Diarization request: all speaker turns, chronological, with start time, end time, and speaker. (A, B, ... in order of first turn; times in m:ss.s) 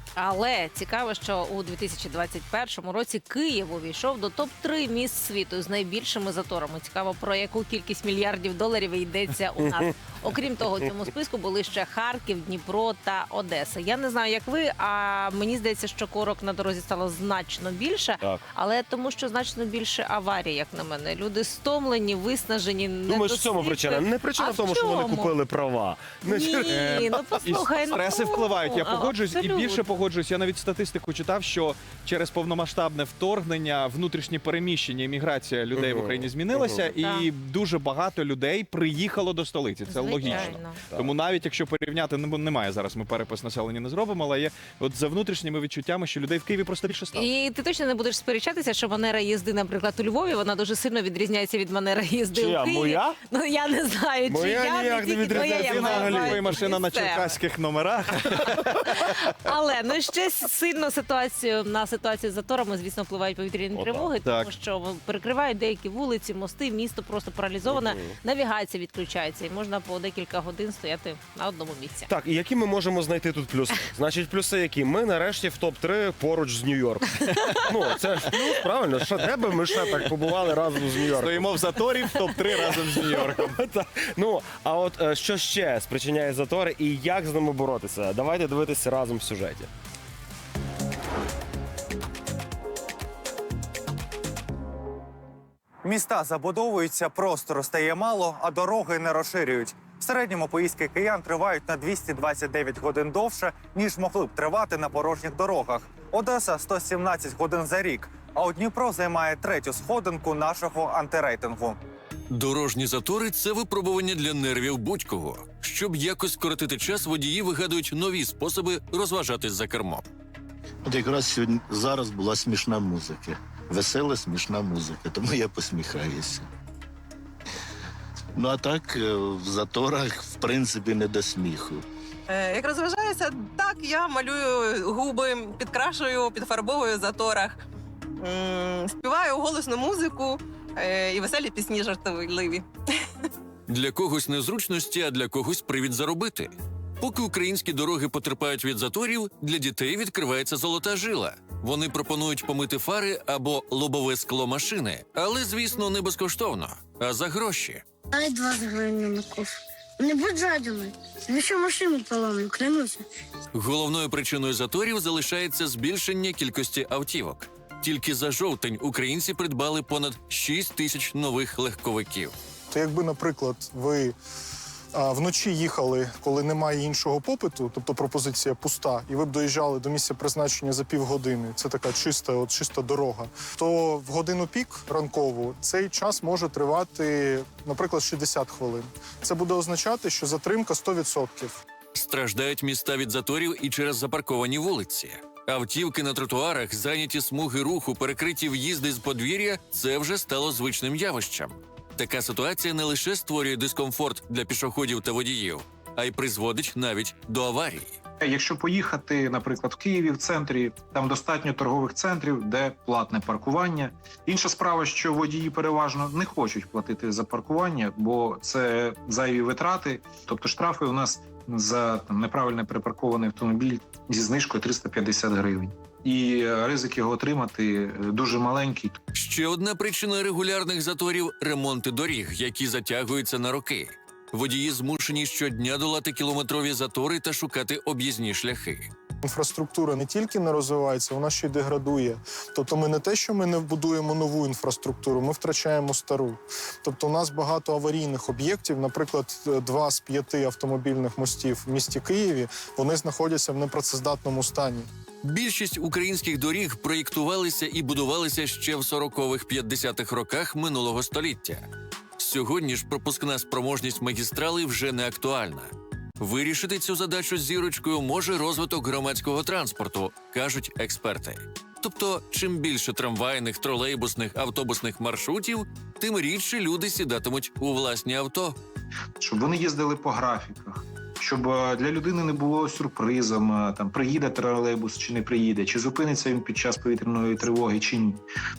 0:00.2-0:25.3 A
0:23.1-0:27.1 B
0:26.2-0:29.8 A
0:26.6-0:47.3 C
0:35.8-0:36.8 B
0:36.9-0:37.3 A
0:39.9-0:40.8 A
0:40.3-0:41.0 B
0:47.1-0:57.4 A
0:52.3-0:53.2 B
0:54.3-0:56.4 B
0:55.3-0:59.1 C
0:58.6-1:12.1 A
1:03.7-1:04.1 B
1:04.2-1:04.5 C
1:07.7-1:08.1 B
1:12.1-1:17.1 B
1:17.2-1:17.9 A
1:17.7-1:21.6 B
1:21.1-1:23.6 C
1:22.6-1:29.7 B
1:35.8-1:51.8 D
1:52.3-2:00.0 E
2:00.8-2:06.5 F
2:08.4-2:11.8 F
2:12.3-2:17.6 G
2:18.2-2:22.7 G
2:23.7-2:37.8 E
2:38.1-2:43.0 H
2:43.5-2:52.3 E
2:52.7-2:54.2 I
2:54.9-3:11.6 I
3:11.9-3:27.9 E
3:28.2-3:49.0 J
3:49.1-3:58.9 E
3:59.2-4:14.9 I
4:15.2-4:21.6 E
4:22.2-4:38.6 E
4:39.2-4:48.2 J